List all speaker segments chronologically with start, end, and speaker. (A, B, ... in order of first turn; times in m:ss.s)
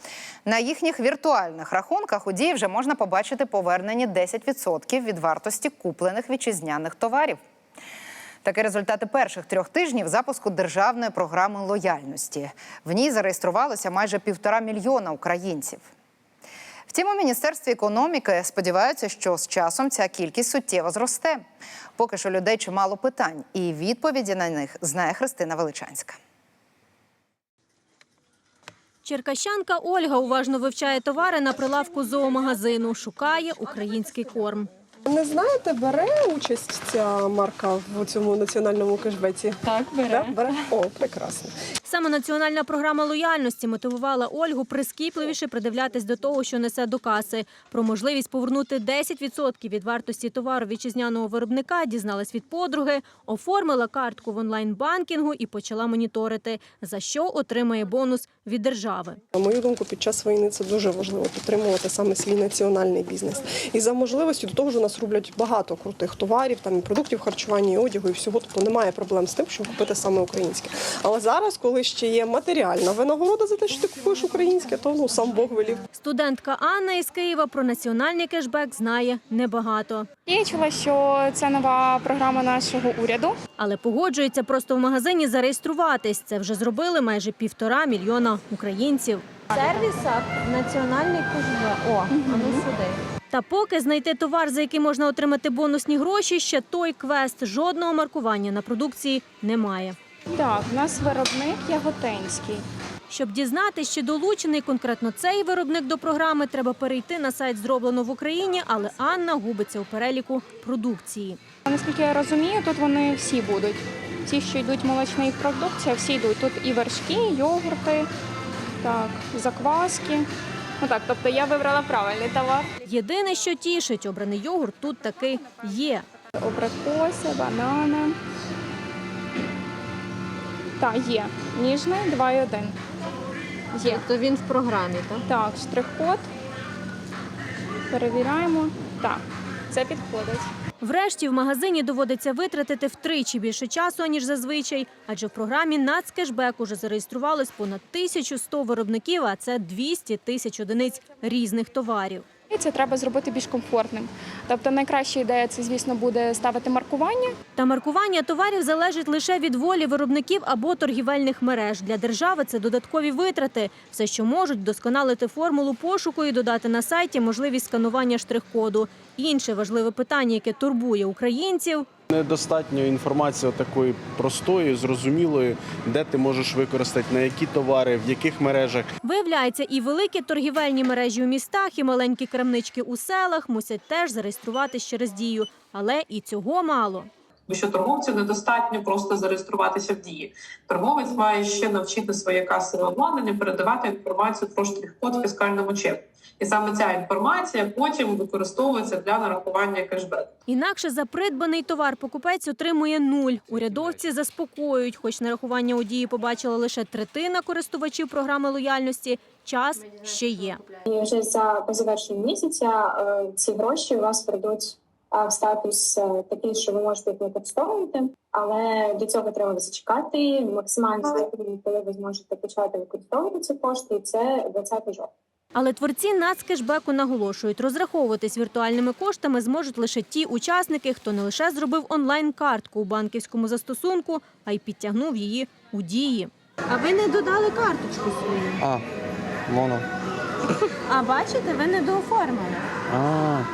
0:00.4-0:07.4 A
0:08.4-0:15.9 A
0:16.9-0:21.4 A
0:22.0-0:26.2 A
0:29.0-0:34.7 B
0:35.1-0:41.6 C
0:41.9-0:59.2 B
0:59.3-1:15.8 C
1:16.0-1:20.1 B
1:20.3-1:23.4 D
1:23.6-1:40.0 B
1:32.1-1:32.7 D
1:40.3-1:42.6 D
1:43.1-1:51.4 B
1:51.7-1:58.1 D
1:58.8-2:00.3 D
2:00.8-2:02.7 D
2:02.8-2:06.0 B
2:06.4-2:08.2 D
2:10.8-2:12.8 D
2:13.7-2:14.1 D
2:13.9-2:15.2 B
2:15.3-2:16.3 D
2:17.9-2:20.5 D
2:20.8-2:32.3 B
2:32.5-2:37.4 D
2:37.6-2:51.9 B
2:52.1-2:58.9 E
2:59.0-3:07.1 B
3:07.5-3:20.4 F
3:20.5-3:30.6 B
3:30.9-3:32.5 A
3:31.0-3:45.1 G
3:33.2-3:33.6 A
3:35.2-3:37.5 A
3:38.1-3:41.3 A
3:41.9-3:43.3 A
3:44.0-3:45.0 A
3:45.6-3:58.6 B
4:00.9-4:02.6 B